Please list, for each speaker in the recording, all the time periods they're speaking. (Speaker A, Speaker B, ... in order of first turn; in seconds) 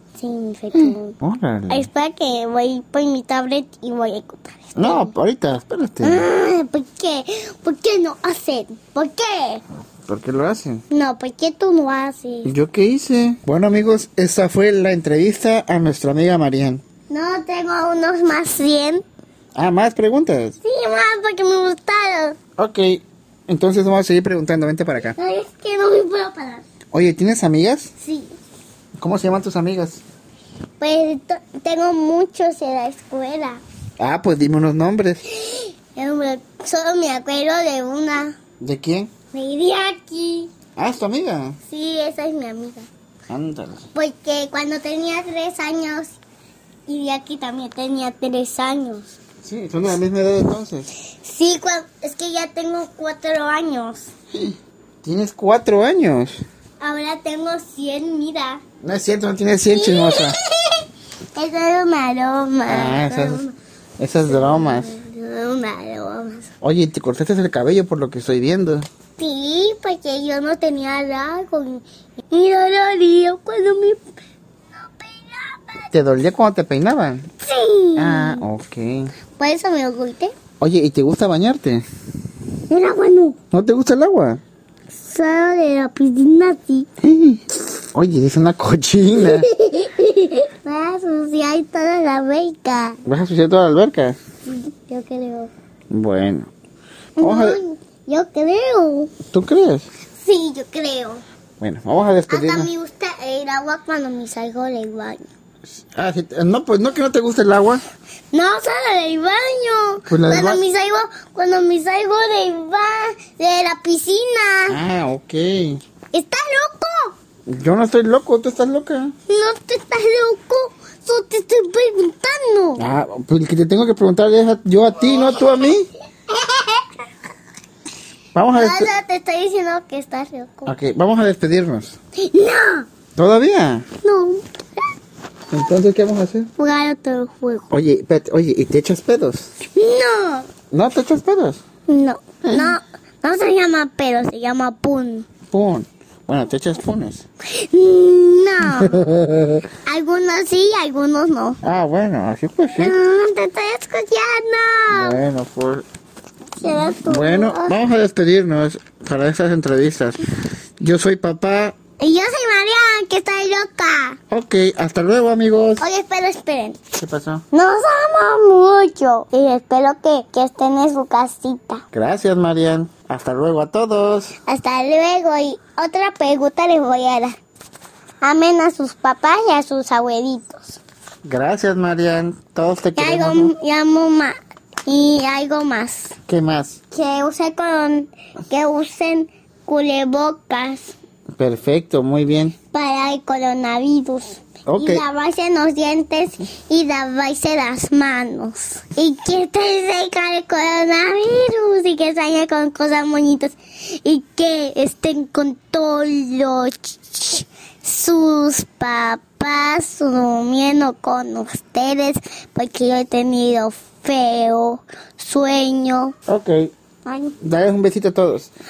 Speaker A: 0.2-1.2, 1.7-5.1, 6.0-9.6, 10.9-12.5, 17.1-19.0, 20.6-22.4, 25.0-26.6, 28.0-28.3, 30.8-33.6, 35.3-38.4, 39.3-40.5, 41.7-42.9, 43.9-46.1, 46.9-49.2, 51.2-54.1, 56.8-58.6, 59.7-63.5, 64.3-66.5, 69.2-74.0, 74.8-75.9, 77.4-78.4, 79.4-80.3, 82.7-83.4, 85.0-86.9, 89.2-93.0, 94.5-95.5, 97.2-99.1, 100.2-101.2, 102.3-105.3, 108.3-114.8, 116.1-117.1, 119.3-122.8, 126.3-126.8, 128.5-130.7, 132.2-132.9, 134.0-134.4, 136.6-137.7, 139.7-140.5, 141.9-145.3, 147.5-148.9, 149.8-151.6, 152.8-155.2, 156.6-157.8, 162.0-164.2, 165.8-166.8, 167.5-171.8, 174.5-177.3, 178.2-180.8, 183.0-184.3, 184.8-186.2, 186.9-190.9, 192.7-216.1, 217.0-217.3
Speaker B: 0.7-1.9, 4.8-6.3, 10.1-10.8, 12.4-16.8, 19.5-20.6, 22.6-25.1, 26.9-27.9, 29.0-30.0, 34.0-35.2, 38.6-39.1, 40.8-41.6, 43.3-43.8, 49.4-50.9, 54.3-56.4, 58.8-60.4, 62.7-63.4, 64.0-65.0, 66.6-68.9, 75.9-77.3, 78.0-79.1, 80.6-81.8, 83.5-84.4, 87.0-89.5, 93.0-94.2, 95.9-96.5, 97.2-97.6, 99.3-99.9, 101.6-102.7, 105.7-107.8, 110.1-110.6, 114.7-115.8, 117.5-119.1, 122.8-125.9, 128.3-128.9, 130.7-132.0, 133.2-133.8, 135.5-136.5, 137.7-139.5, 140.7-141.6, 142.4-142.8, 145.5-147.2, 148.6-149.7, 151.6-152.9, 154.9-155.8, 156.7-160.3, 160.8-161.8, 164.3-165.8, 166.9-167.4, 171.9-174.3, 181.2-183.5, 186.3-186.8, 191.4-192.6, 194.7-195.0, 216.3-216.7, 217.4-218.5